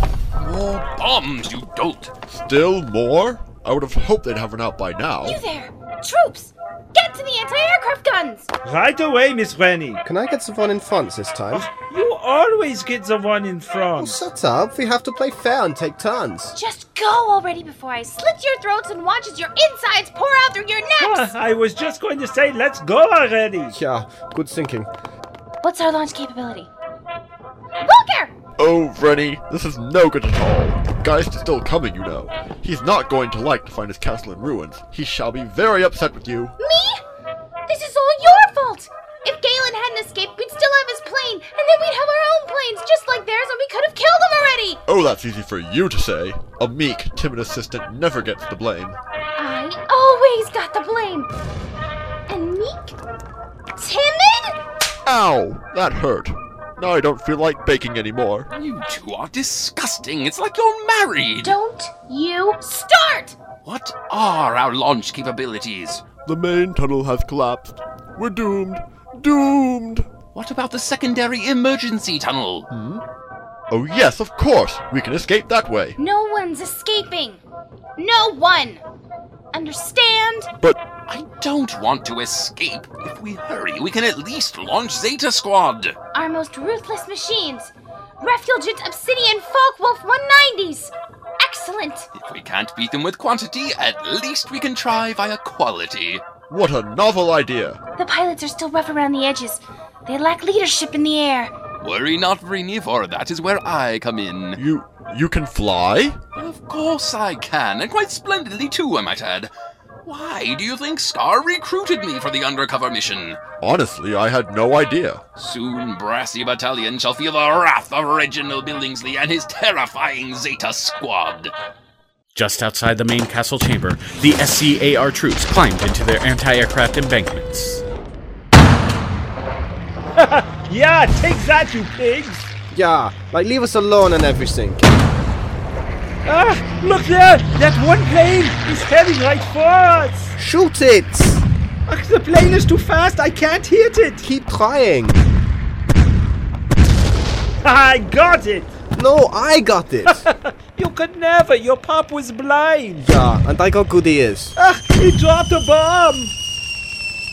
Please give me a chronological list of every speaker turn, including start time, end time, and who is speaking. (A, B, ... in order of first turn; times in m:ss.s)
0:00.4-0:02.1 A
0:02.3-0:05.4 B
0:05.2-0:08.5 C
0:08.6-0:10.0 D
0:10.0-0:11.7 E
0:11.6-0:14.2 D
0:14.0-0:16.5 E
0:16.5-0:21.3 C
0:21.0-0:23.7 D
0:23.7-0:24.9 E
0:25.6-0:26.7 C
0:27.8-0:28.3 C
0:28.6-0:36.5 B
0:36.6-0:37.0 C
0:37.7-0:44.8 C
0:44.9-0:49.0 B
0:49.4-0:51.3 C
0:52.3-0:53.0 C
0:53.8-0:54.6 C
0:55.0-0:58.5 B
0:58.5-1:01.6 A
1:01.4-1:03.4 C
1:03.6-1:06.0 A
1:06.2-1:10.1 B
1:10.3-1:12.7 A
1:12.7-1:13.0 B
1:13.7-1:16.0 B
1:16.0-1:17.4 C
1:18.0-1:18.8 C
1:19.5-1:20.5 C
1:21.1-1:26.0 A
1:26.1-1:32.1 C
1:32.1-1:36.2 A
1:36.5-1:37.8 B
1:38.0-1:41.5 C
1:41.8-1:44.6 A
1:44.6-1:46.2 B
1:46.4-1:49.5 A
1:50.0-1:53.4 A
1:53.6-1:55.2 B
1:55.4-2:01.5 A
2:02.3-2:07.8 F
2:10.2-2:12.5 D
2:12.7-2:14.9 E
2:16.2-2:20.3 D
2:20.4-2:21.4 E
2:21.9-2:24.2 D
2:24.2-2:25.2 E
2:27.6-2:28.7 D
2:28.9-2:30.2 E
2:30.8-2:33.0 D
2:33.0-2:34.5 E
2:34.6-2:36.3 D